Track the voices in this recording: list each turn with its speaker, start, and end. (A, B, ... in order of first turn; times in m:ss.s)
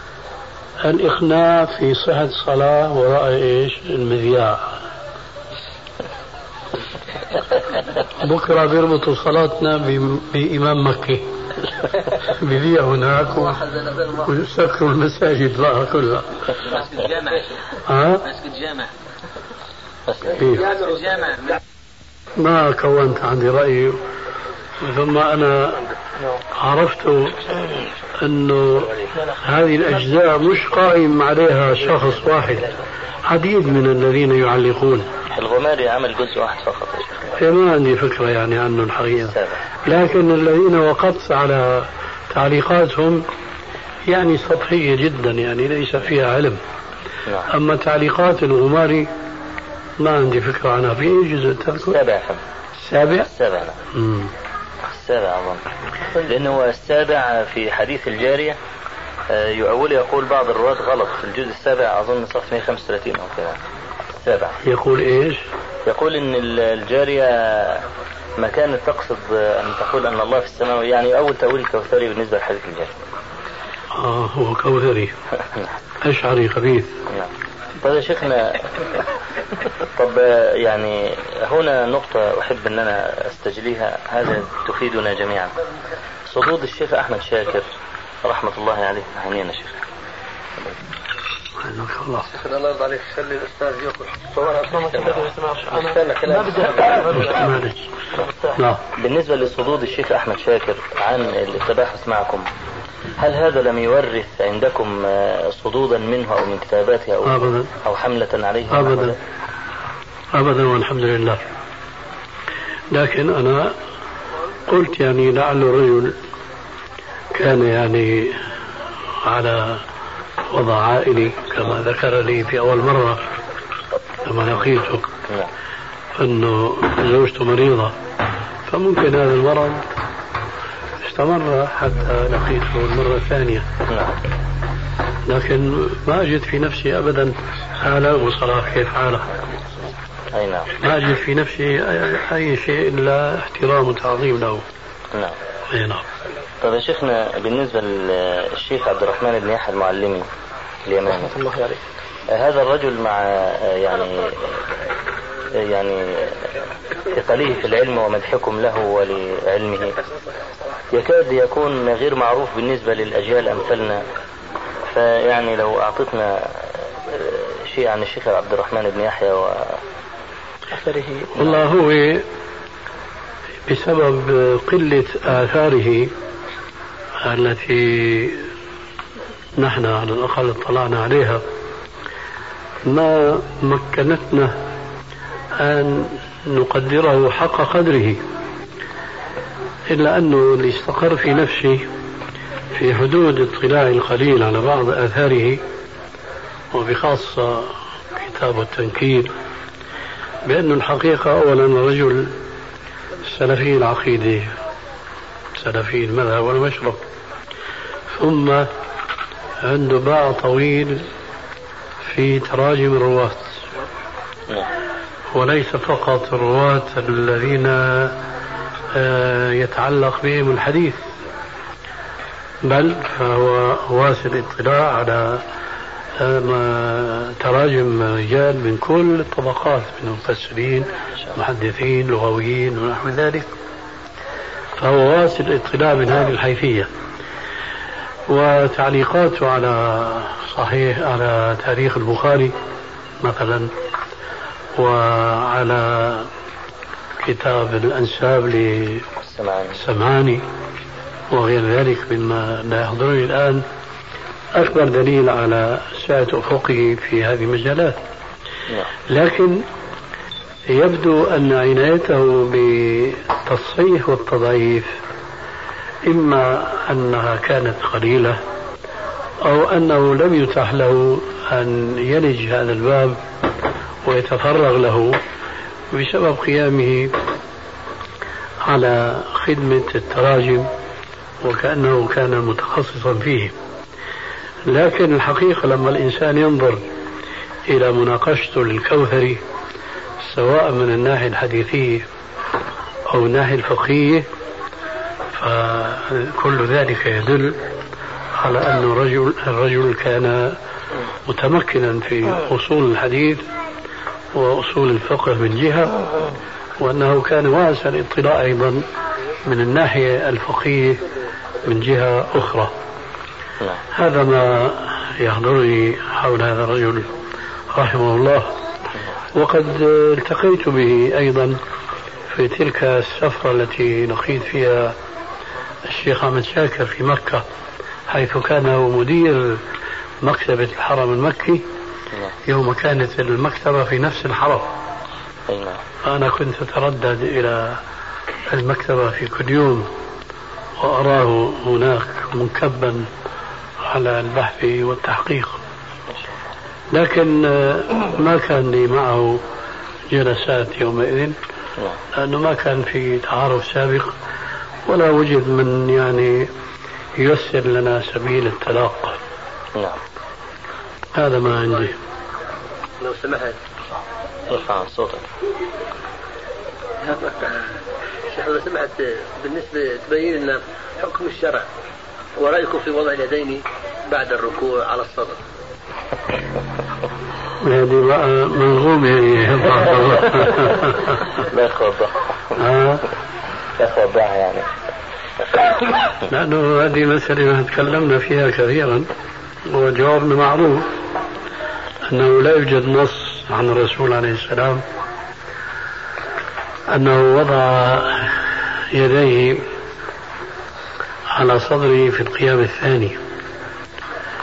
0:00.8-0:04.8 A
0:08.2-0:11.3 A
0:12.1-0:16.5 A
0:16.7-0:17.5 B
0:17.9-0:18.2 A
0:18.3-0:18.9 B
0:20.1-0:20.4 C
0:20.4-0:20.7 A
0:20.5-0:21.6 B
0:22.4-0:24.0 A
0:24.8-0:25.8 A
0:26.6-0:27.5 A
0:28.2-0:32.7 A
0:33.3-0:35.1 A
0:35.3-0:37.3 C
0:37.4-0:43.2 A
0:39.3-0:39.6 C
0:44.1-0:46.6 A
0:47.5-0:49.1 A
0:50.0-0:52.0 A
0:51.8-0:52.4 C
0:52.8-0:53.3 A
0:53.2-0:53.8 C
0:53.9-0:54.3 A
0:54.9-0:58.6 C
0:59.3-1:03.6 C
1:04.2-1:04.6 C
1:04.6-1:05.4 A
1:05.8-1:07.9 C
1:08.4-1:12.9 C
1:13.9-1:15.1 A
1:16.0-1:17.0 A
1:17.1-1:18.8 C
1:20.0-1:25.5 C
1:26.2-1:27.7 C
1:28.2-1:29.8 C
1:31.6-1:32.3 A
1:32.3-1:37.5 B
1:37.1-1:37.9 A
1:38.6-1:38.8 A
1:38.9-1:42.5 C
1:43.2-1:49.2 C
1:47.2-1:47.7 A
1:48.7-1:49.2 A
1:50.3-1:51.4 A
1:52.9-1:53.8 A
1:54.7-1:56.2 A
1:57.3-1:58.4 A
1:59.2-1:59.8 A
2:00.5-2:03.2 A
2:04.2-2:05.1 A
2:06.2-2:08.0 A
2:08.7-2:09.9 A
2:11.0-2:13.7 A
2:13.9-2:14.1 C
2:15.3-2:19.3 A
2:20.3-2:20.8 C
2:20.8-2:24.6 A
2:25.7-2:26.1 A
2:26.6-2:30.3 C
2:30.8-2:31.6 C
2:32.3-2:34.6 C
2:35.5-2:40.0 C
2:40.9-2:44.0 C
2:44.8-2:49.8 C
2:51.3-2:52.3 A
2:53.7-2:56.1 A
2:57.2-2:58.5 A
2:59.6-3:01.4 A
3:02.9-3:04.5 A
3:05.6-3:08.2 A
3:09.9-3:11.9 A
3:12.7-3:15.6 A
3:16.7-3:19.3 A
3:20.4-3:22.4 A
3:23.2-3:24.5 A
3:25.6-3:27.0 A
3:28.1-3:28.7 A
3:29.6-3:31.1 A
3:32.0-3:33.6 A
3:35.3-3:38.2 A
3:38.9-3:41.0 A
3:42.6-3:45.4 A
3:46.2-3:53.5 A
3:54.8-3:56.9 A
3:58.3-4:02.5 A
4:03.2-4:03.7 A
4:04.8-4:06.3 A
4:07.2-4:09.1 A
4:09.2-4:09.8 C
4:09.8-4:10.4 A
4:11.3-4:13.6 A
4:14.5-4:18.0 A
4:19.1-4:19.7 A
4:20.7-4:24.9 A
4:26.0-4:28.4 A
4:29.4-4:33.2 A
4:34.0-4:35.2 A
4:35.9-4:37.1 A
4:38.6-4:40.7 A
4:41.4-4:43.5 A
4:44.7-4:46.8 A
4:47.7-4:49.4 A
4:50.2-4:52.0 A
4:53.1-4:54.3 A
4:55.3-4:57.6 A
4:58.4-5:00.6 A
5:01.2-5:03.4 A
5:04.3-5:06.0 A
5:06.8-5:08.8 A
5:09.4-5:11.0 A
5:11.6-5:12.7 A
5:13.9-5:17.1 A
5:17.7-5:18.5 A
5:19.3-5:21.6 A
5:22.3-5:25.0 A
5:25.9-5:27.4 A
5:28.1-5:29.6 A
5:30.2-5:31.6 A
5:32.4-5:34.7 A
5:35.5-5:35.8 C
5:36.0-5:37.8 A
5:38.5-5:39.9 A
5:40.8-5:43.1 A
5:43.9-5:45.6 A
5:46.9-5:49.4 A
5:50.1-5:51.4 A
5:52.1-5:54.1 A
5:54.9-5:56.5 A
5:57.2-5:59.2 A
6:01.1-6:02.0 A
6:03.0-6:03.6 B
6:04.5-6:05.2 C
6:07.0-6:07.7 B
6:08.3-6:11.7 B
6:12.4-6:15.4 B
6:17.6-6:21.1 A
6:21.4-6:22.2 C
6:22.6-6:23.1 A
6:23.8-6:24.7 C
6:26.3-6:29.1 A
6:29.6-6:30.9 A
6:32.1-6:34.8 A
6:36.9-6:38.4 A
6:38.9-6:39.7 A
6:41.3-6:43.2 A